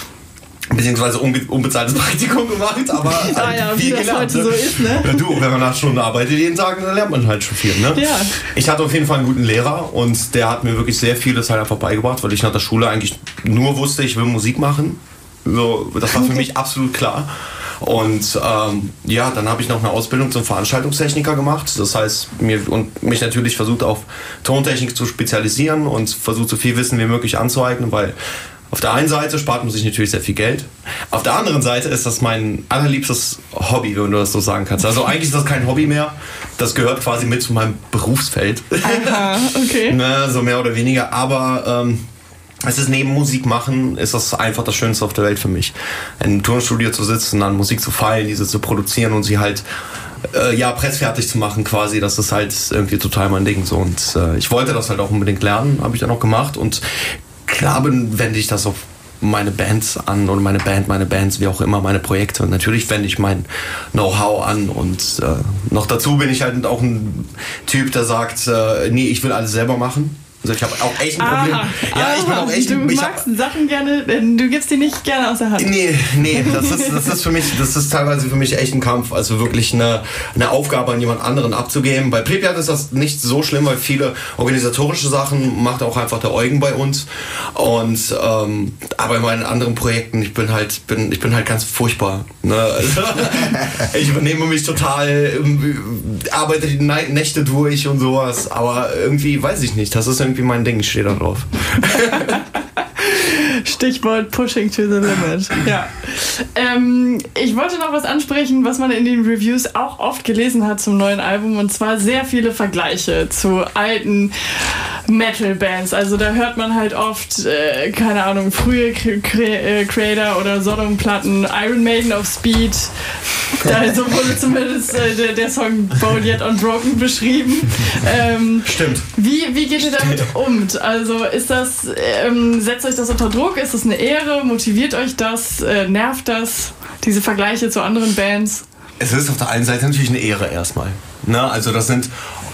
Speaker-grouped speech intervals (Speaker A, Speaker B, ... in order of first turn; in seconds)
Speaker A: 0.7-28.1, 28.7-39.3, 39.9-42.0, 42.6-49.6, 50.3-56.8, 57.4-73.2, 75.6-102.3, 128.7-129.1, 129.8-130.3, 139.0-142.1
Speaker B: 3.2-5.4, 7.9-8.3, 38.8-40.0, 71.2-75.8, 76.4-76.7, 103.0-122.9, 123.6-138.6